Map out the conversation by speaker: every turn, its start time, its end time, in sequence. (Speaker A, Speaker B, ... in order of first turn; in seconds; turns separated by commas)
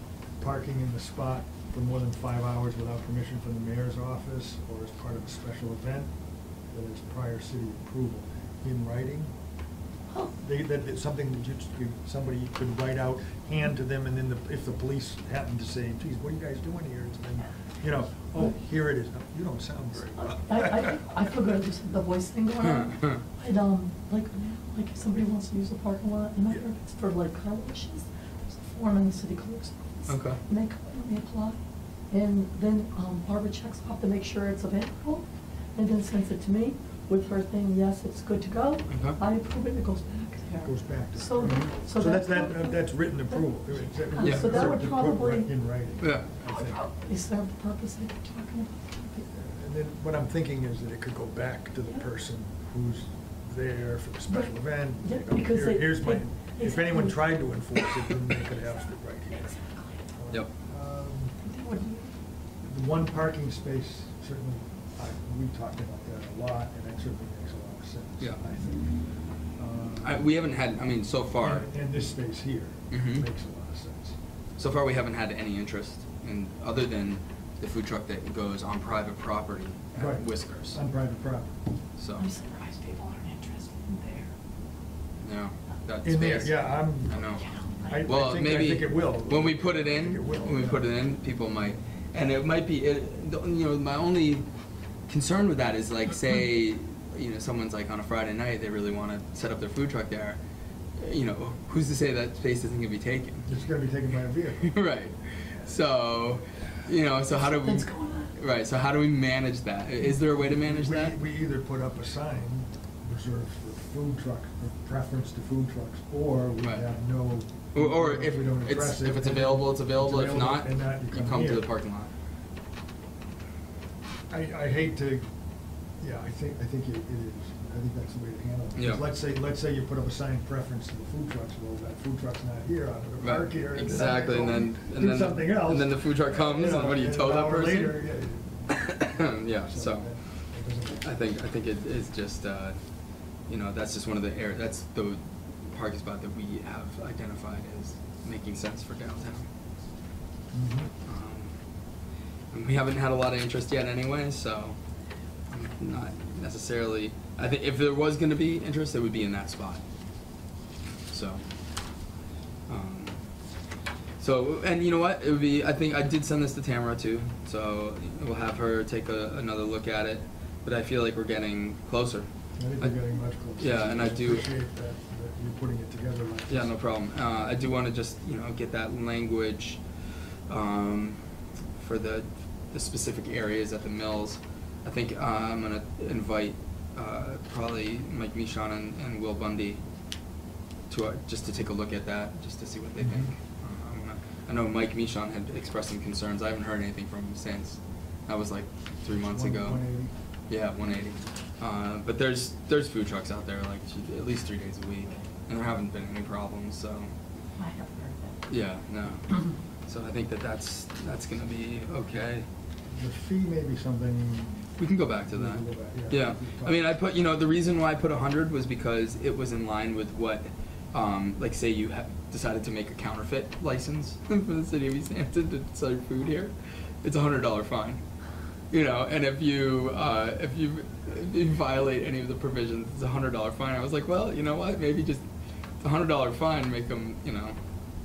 Speaker A: 0.4-6.1, Speaker A: 6.7-9.3, Speaker A: 10.4-21.0, Speaker B: 20.1-31.6, Speaker C: 22.6-23.2, Speaker C: 30.1-30.4, Speaker B: 32.1-45.5, Speaker C: 38.9-39.2, Speaker A: 40.6-46.8, Speaker C: 44.2-44.7, Speaker C: 46.0-46.3, Speaker B: 46.5-49.2, Speaker A: 49.3-59.5, Speaker B: 54.3-57.3, Speaker B: 59.3-60.0, Speaker A: 60.1-61.4, Speaker B: 61.4-62.1, Speaker A: 62.6-68.9, Speaker A: 69.6-70.3, Speaker C: 70.0-71.7, Speaker A: 71.4-74.2, Speaker C: 72.9-73.2, Speaker C: 74.6-80.8, Speaker A: 80.0-81.5, Speaker C: 82.0-82.3, Speaker B: 82.2-84.3, Speaker C: 85.2-94.5, Speaker A: 86.0-87.2, Speaker B: 87.3-88.0, Speaker A: 87.9-90.8, Speaker C: 95.1-100.4, Speaker C: 101.0-103.5, Speaker A: 103.5-104.8, Speaker C: 104.6-111.2, Speaker B: 107.4-108.3, Speaker A: 110.4-121.7, Speaker C: 117.7-122.1, Speaker A: 124.3-125.3, Speaker A: 126.0-138.7, Speaker C: 128.8-129.1, Speaker C: 133.2-138.0, Speaker C: 138.7-140.1, Speaker A: 139.6-141.2, Speaker C: 141.0-142.8, Speaker C: 143.5-149.5, Speaker A: 150.5-150.9, Speaker C: 151.0-151.5, Speaker C: 152.5-154.8, Speaker C: 155.5-159.8, Speaker C: 161.1-161.4, Speaker C: 162.7-163.2, Speaker C: 164.2-172.3, Speaker A: 172.6-176.7, Speaker C: 173.6-174.5, Speaker C: 176.5-179.8, Speaker C: 180.5-181.2, Speaker C: 181.8-189.8, Speaker C: 190.9-199.8, Speaker A: 193.0-193.3, Speaker A: 199.1-200.1, Speaker C: 200.5-207.1, Speaker B: 207.6-208.4, Speaker C: 208.5-212.5, Speaker A: 212.9-214.7, Speaker C: 214.8-228.0, Speaker A: 215.3-216.8, Speaker C: 228.7-235.2, Speaker C: 235.8-237.6